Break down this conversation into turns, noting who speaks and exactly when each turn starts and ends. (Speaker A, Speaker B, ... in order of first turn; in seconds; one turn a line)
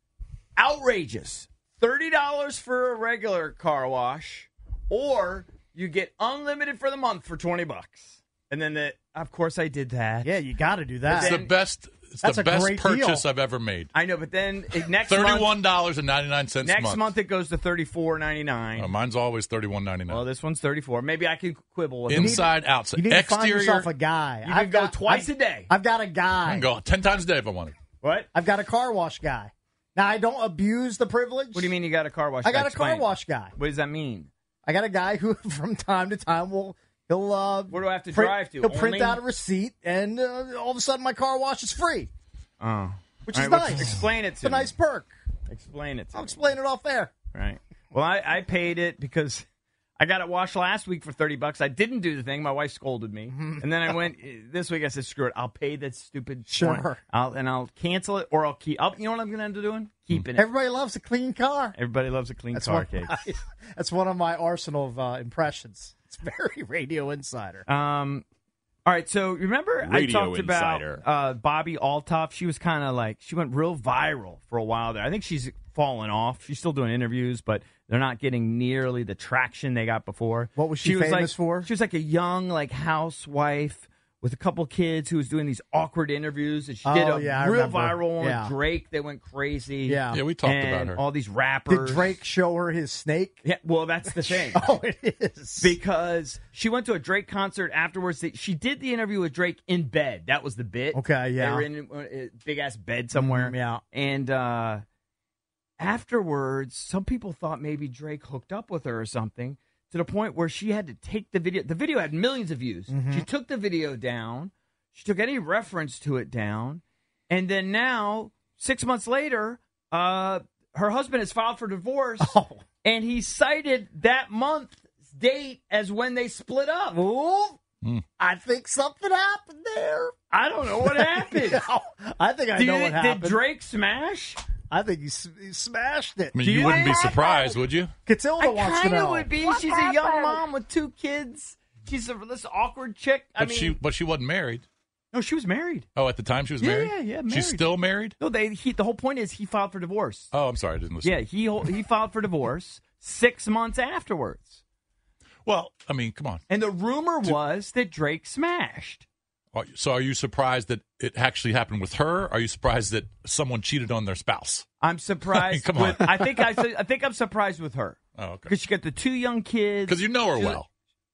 Speaker A: 0.6-10.3
Speaker B: 10.2-11.4
Speaker A: 11.0-11.6
Speaker C: 11.2-13.9
Speaker B: 12.2-13.2
Speaker A: 13.9-15.5
Speaker C: 15.1-17.1
Speaker A: 16.6-18.9
Speaker C: 18.8-20.2
Speaker A: 20.1-22.5
Speaker C: 22.1-23.9
Speaker B: 22.1-26.7
Speaker A: 24.4-25.7
Speaker C: 26.4-27.8
Speaker A: 28.0-28.3
Speaker B: 28.3-31.7
Speaker A: 31.5-34.3
Speaker B: 32.4-33.5
Speaker B: 34.6-42.1
Speaker A: 37.7-39.2
Speaker A: 42.6-44.7
Speaker B: 43.3-45.1
Speaker A: 45.5-46.4
Speaker B: 46.1-47.1
Speaker A: 47.3-49.5
Speaker A: 50.0-60.5
Speaker B: 53.3-53.6
Speaker B: 56.5-57.0
Speaker B: 60.4-61.8
Speaker A: 61.7-63.2
Speaker B: 62.5-67.7
Speaker A: 67.7-68.2
Speaker A: 68.9-92.1
Speaker B: 80.6-81.7
Speaker B: 86.8-88.5
Speaker B: 89.9-90.2
Speaker C: 90.1-91.0
Speaker B: 91.7-93.4
Speaker A: 93.4-94.7
Speaker B: 94.1-95.8
Speaker A: 95.6-104.8
Speaker B: 100.9-101.7
Speaker B: 103.1-103.8
Speaker A: 105.8-127.0
Speaker B: 112.9-113.3
Speaker B: 122.2-122.6
Speaker B: 127.0-127.6
Speaker B: 128.2-130.1
Speaker A: 130.3-131.6
Speaker B: 130.8-133.4
Speaker A: 132.6-134.4
Speaker B: 134.7-137.3
Speaker C: 136.3-137.9
Speaker A: 136.4-137.6
Speaker B: 138.1-140.4
Speaker A: 138.4-143.8
Speaker C: 143.4-144.7
Speaker A: 145.1-145.9
Speaker C: 145.9-148.2
Speaker A: 146.6-150.3
Speaker C: 150.3-151.2
Speaker A: 151.0-154.6
Speaker C: 155.4-156.4
Speaker A: 156.5-159.1
Speaker C: 159.5-164.7
Speaker A: 164.8-170.6
Speaker C: 165.3-166.0
Speaker C: 168.2-168.5
Speaker C: 169.9-170.7